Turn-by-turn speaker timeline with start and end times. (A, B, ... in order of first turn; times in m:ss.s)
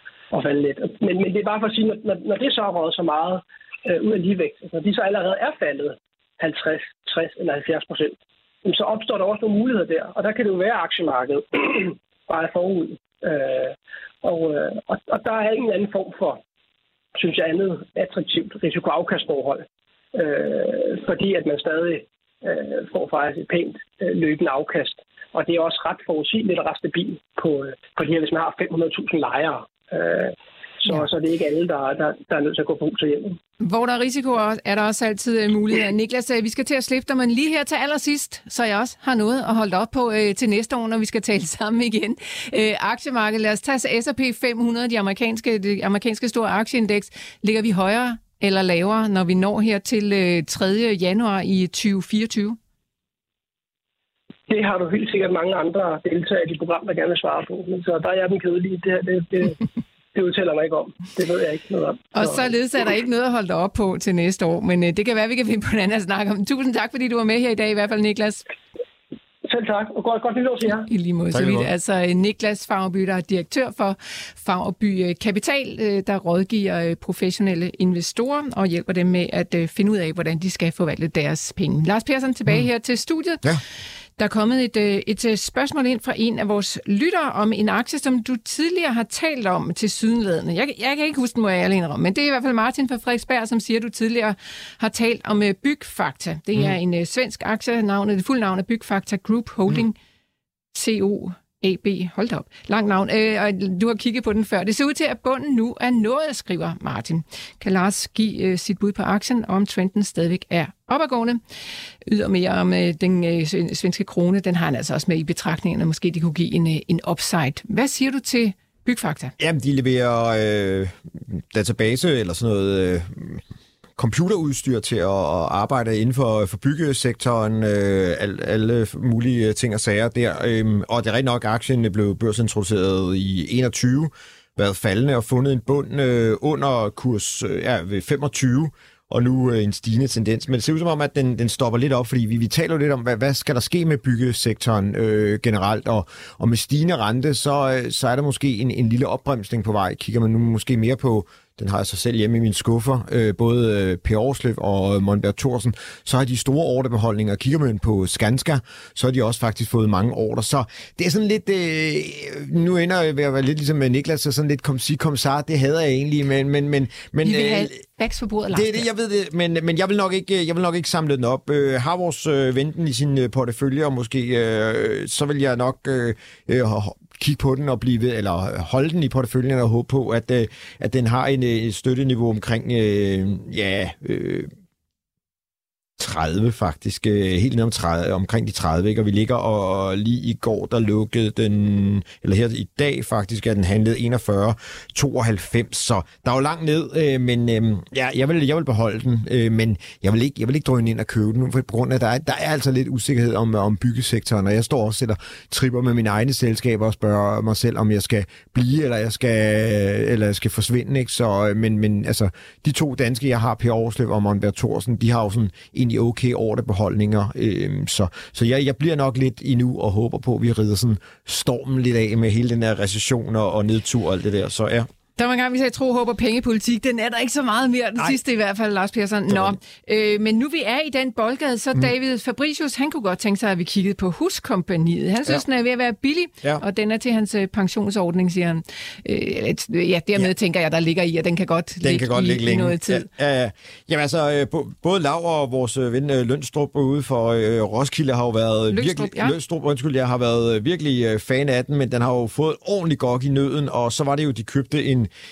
0:00.3-0:16.4 A
0:17.1-0:33.4 A
0:33.6-0:52.6 B
0:54.5-0:59.6 A
1:00.1-1:02.5 A
1:02.1-1:08.4 B
1:09.4-1:10.9 A
1:10.9-1:23.4 B
1:11.3-1:11.7 C
1:24.2-1:40.0 B
1:40.7-1:51.4 B
1:52.0-1:59.3 B
1:59.4-2:03.4 C
2:04.0-2:47.8 C
2:47.2-2:48.8 B
2:48.5-3:04.5 C
3:06.0-3:44.9 C
3:45.2-4:03.1 B
3:49.3-3:49.6 C
4:01.8-4:15.1 C
4:08.7-4:09.4 B